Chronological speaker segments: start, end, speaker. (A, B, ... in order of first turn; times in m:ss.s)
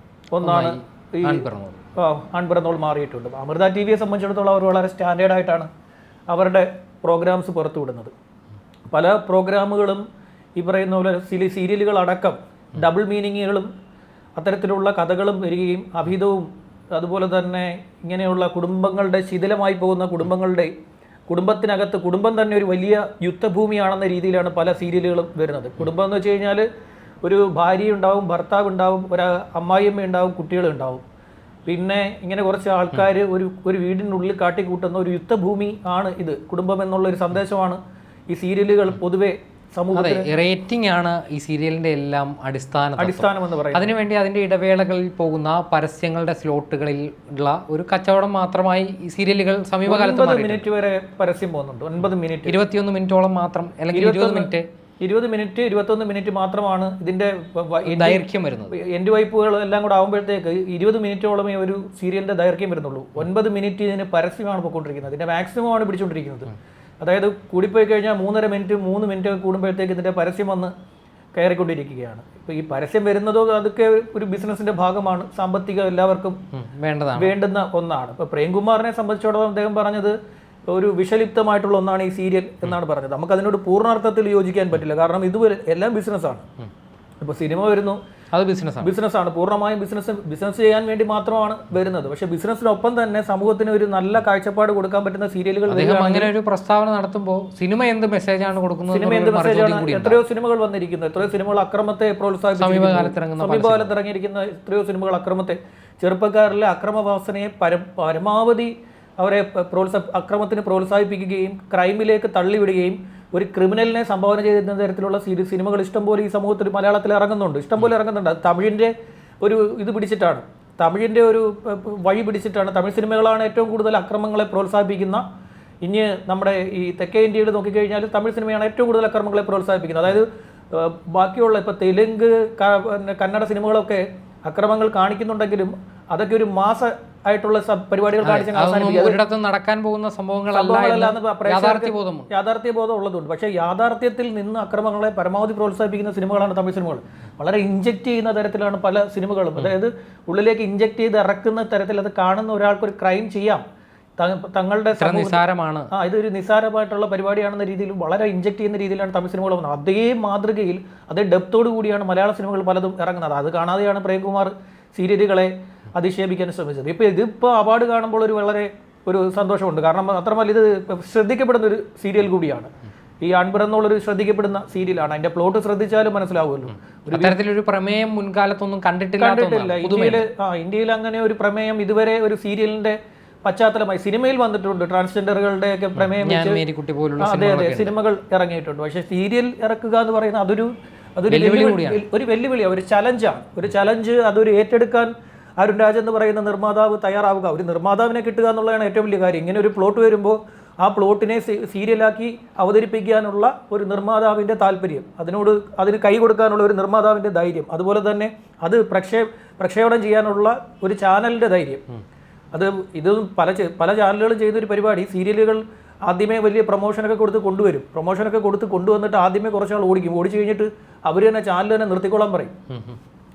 0:00.3-0:01.4 A
0:00.4-0:01.8 B
0:02.0-0:05.7 A
0:06.3-0:08.1 A
0:08.9-0:10.0 A
0:10.6-0:13.7 A
0:14.4-0:20.7 A
0:21.3-0:26.6 A
0:27.2-0:31.0 A
0:31.7-0:40.3 A
0:40.0-0:50.7 B
0:43.0-0:43.9 A
0:49.9-0:52.6 A
0:52.5-0:54.6 B
0:53.9-1:10.7 A
0:57.9-0:58.8 B
1:11.3-1:16.4 A
1:16.5-1:17.3 B
1:17.2-1:20.2 A
1:20.7-1:26.4 A
1:27.2-1:28.0 A
1:28.3-1:28.9 B
1:28.8-1:36.3 A
1:35.7-1:40.2 B
1:38.9-2:05.2 A
1:42.6-1:44.0 B
2:05.8-2:19.2 A
2:18.2-2:22.3 B
2:20.5-2:33.6 A
2:34.2-2:35.4 A
2:35.0-2:35.9 B
2:35.9-2:52.7 A
2:53.2-2:57.4 A
2:57.1-3:00.3 B
2:59.2-3:06.6 A
3:06.2-3:08.0 B
3:07.2-3:31.8 A
3:11.3-3:12.0 B
3:32.5-3:42.5 A